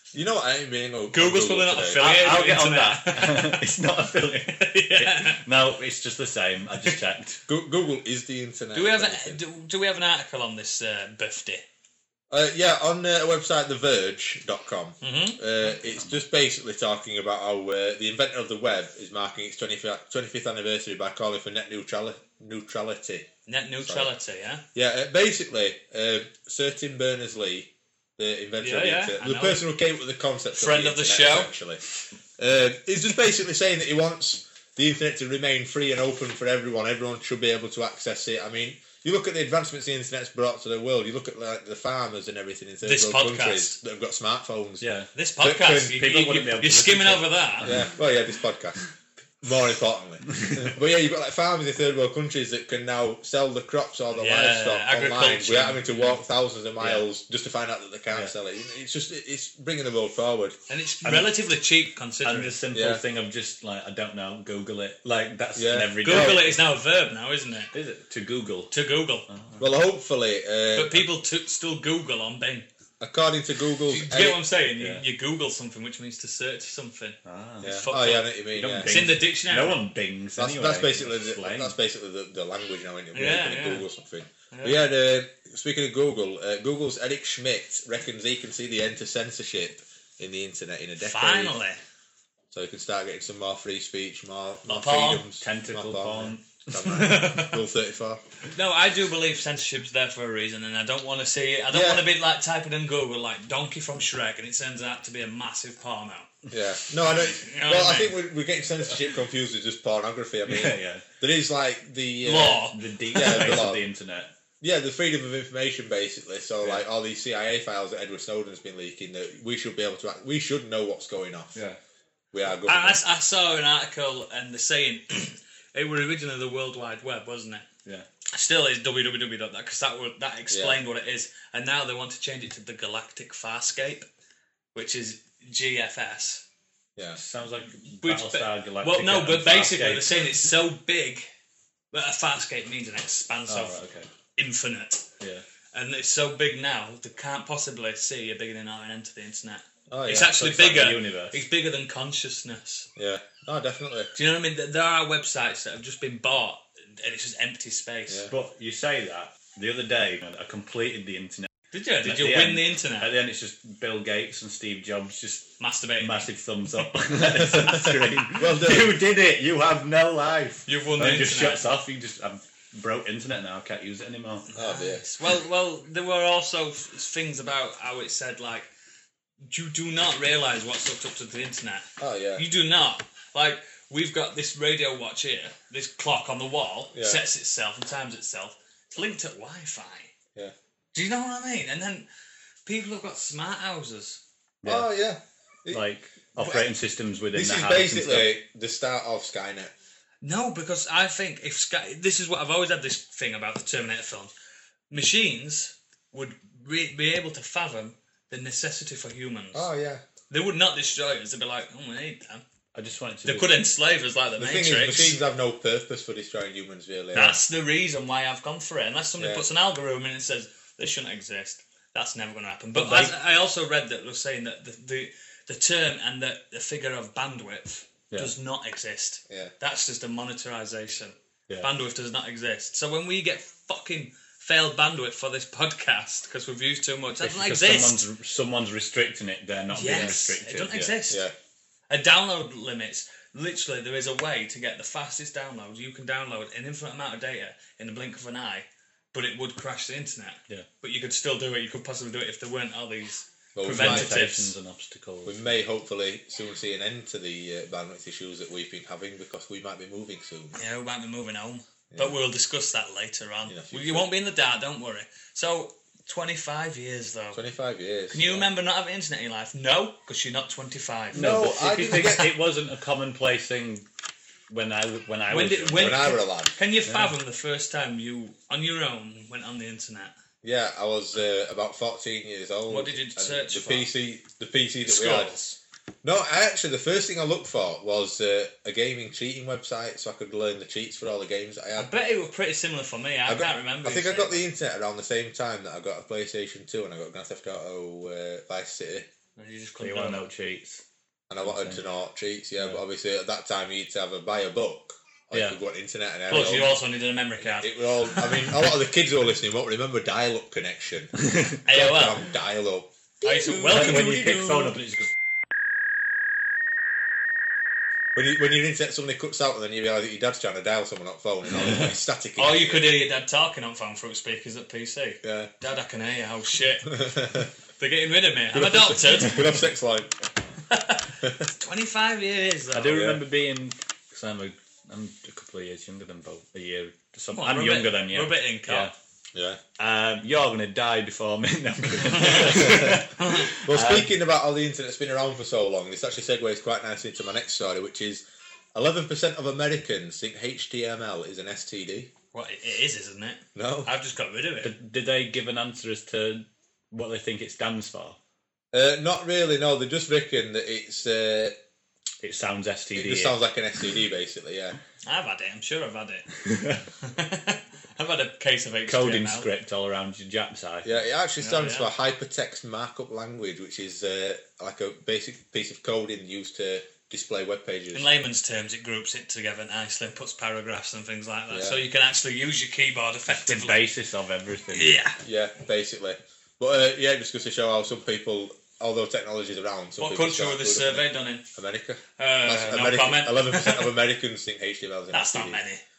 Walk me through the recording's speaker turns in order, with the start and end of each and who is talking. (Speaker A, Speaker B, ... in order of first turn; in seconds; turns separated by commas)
Speaker A: 0.1-2.0, Speaker B: 1.1-3.6, Speaker C: 2.0-7.4, Speaker B: 4.5-5.4, Speaker A: 7.5-9.4, Speaker B: 8.7-11.6, Speaker A: 12.3-23.3, Speaker B: 15.0-15.4, Speaker C: 15.7-16.1, Speaker B: 23.5-24.6, Speaker A: 23.8-24.1, Speaker A: 24.7-31.8, Speaker B: 28.6-29.6, Speaker B: 30.5-31.5, Speaker A: 32.4-44.9, Speaker B: 42.8-43.8, Speaker C: 44.8-45.1, Speaker B: 45.1-47.8, Speaker A: 45.4-46.0, Speaker C: 45.7-47.9, Speaker A: 47.6-48.8, Speaker A: 49.4-60.5, Speaker C: 50.3-50.7, Speaker B: 54.1-56.2, Speaker C: 56.8-57.0, Speaker B: 60.7-62.5, Speaker C: 61.0-61.3, Speaker C: 62.2-66.6, Speaker A: 62.7-63.0, Speaker A: 65.5-66.5, Speaker B: 66.0-67.7, Speaker C: 67.7-68.7, Speaker B: 68.7-69.2, Speaker C: 69.3-69.6, Speaker A: 69.6-71.1, Speaker B: 70.7-72.7, Speaker A: 73.0-74.4, Speaker B: 73.9-79.8, Speaker C: 77.2-77.8, Speaker A: 77.6-78.9, Speaker C: 78.5-81.7, Speaker A: 80.4-91.5, Speaker B: 83.1-83.8, Speaker B: 84.5-84.8, Speaker B: 91.0-91.8, Speaker A: 92.5-98.2, Speaker B: 94.7-95.2, Speaker C: 95.4-96.9, Speaker B: 96.8-97.6, Speaker B: 98.5-106.3, Speaker A: 101.7-102.0, Speaker A: 106.5-113.8, Speaker B: 107.1-108.2, Speaker C: 110.5-111.0, Speaker B: 112.2-113.6, Speaker C: 112.7-114.3, Speaker A: 114.6-121.6, Speaker A: 122.3-123.0, Speaker B: 122.6-127.7, Speaker B: 128.3-134.1, Speaker A: 130.5-130.8, Speaker B: 134.7-136.4, Speaker C: 137.2-140.3, Speaker B: 138.0-141.2, Speaker B: 141.9-143.8, Speaker C: 143.5-144.1, Speaker B: 144.3-145.1, Speaker C: 145.2-145.4, Speaker B: 145.7-152.9, Speaker A: 149.9-150.5, Speaker C: 150.3-151.4, Speaker A: 152.9-154.1, Speaker B: 154.1-158.3, Speaker C: 158.3-161.5, Speaker B: 161.7-163.1, Speaker C: 162.0-174.5, Speaker B: 165.6-166.3, Speaker A: 167.5-169.0, Speaker B: 170.7-171.6, Speaker B: 174.5-178.7, Speaker A: 174.5-175.1, Speaker B: 179.4-190.1, Speaker A: 182.0-182.4, Speaker B: 190.9-192.1, Speaker B: 192.7-194.2, Speaker C: 194.6-194.9, Speaker A: 194.6-195.8, Speaker C: 195.7-198.3, Speaker A: 196.4-196.7, Speaker A: 197.3-199.7, Speaker B: 200.2-204.3, Speaker B: 204.9-209.7, Speaker A: 209.5-210.0, Speaker B: 210.3-212.4, Speaker C: 212.7-213.5, Speaker B: 213.2-215.2, Speaker A: 214.4-217.4, Speaker B: 217.1-238.1, Speaker A: 219.2-219.4, Speaker C: 222.7-223.1, Speaker C: 237.2-240.8, Speaker B: 239.7-241.2, Speaker A: 239.9-240.1, Speaker A: 240.7-241.3, Speaker B: 241.9-254.5, Speaker A: 253.5-254.2, Speaker C: 253.6-255.5, Speaker A: 255.2-260.6, Speaker B: 260.5-267.4, Speaker A: 263.5-264.1, Speaker A: 267.3-268.5, Speaker B: 268.1-271.3, Speaker A: 271.1-272.4, Speaker C: 271.1-273.9, Speaker C: 274.5-276.1, Speaker B: 275.3-280.1, Speaker A: 275.8-277.1, Speaker A: 280.4-285.3, Speaker B: 282.7-283.9, Speaker B: 284.8-285.6, Speaker A: 286.0-291.9, Speaker B: 291.7-294.4, Speaker A: 293.2-299.1, Speaker B: 299.4-300.3, Speaker C: 299.8-300.8, Speaker A: 301.3-306.7, Speaker C: 301.4-301.8, Speaker C: 305.3-305.6, Speaker B: 306.3-308.6, Speaker A: 307.4-314.4, Speaker C: 311.2-311.6, Speaker B: 311.6-312.2, Speaker B: 313.2-314.7, Speaker C: 313.4-315.1, Speaker A: 318.1-323.1, Speaker B: 322.4-327.0, Speaker A: 325.2-325.5, Speaker A: 326.9-327.5, Speaker B: 327.8-329.6, Speaker A: 328.5-330.1, Speaker B: 330.7-333.2, Speaker C: 332.7-338.9, Speaker B: 337.3-338.9, Speaker A: 339.3-339.6, Speaker C: 339.8-344.1, Speaker B: 342.1-342.6, Speaker A: 342.3-352.1, Speaker B: 343.2-343.5, Speaker B: 352.3-354.7, Speaker A: 353.5-353.9, Speaker C: 354.6-358.2, Speaker A: 358.7-361.6, Speaker C: 362.2-363.4, Speaker A: 362.9-364.8, Speaker B: 365.1-366.3, Speaker C: 366.4-366.9, Speaker B: 367.0-369.5, Speaker C: 368.9-370.9, Speaker A: 370.8-378.1, Speaker B: 371.4-371.9, Speaker B: 377.9-383.8, Speaker A: 381.5-381.8, Speaker C: 383.3-385.0, Speaker B: 384.7-385.2, Speaker A: 385.2-395.6, Speaker B: 390.0-391.4, Speaker B: 392.2-393.9, Speaker B: 395.1-395.8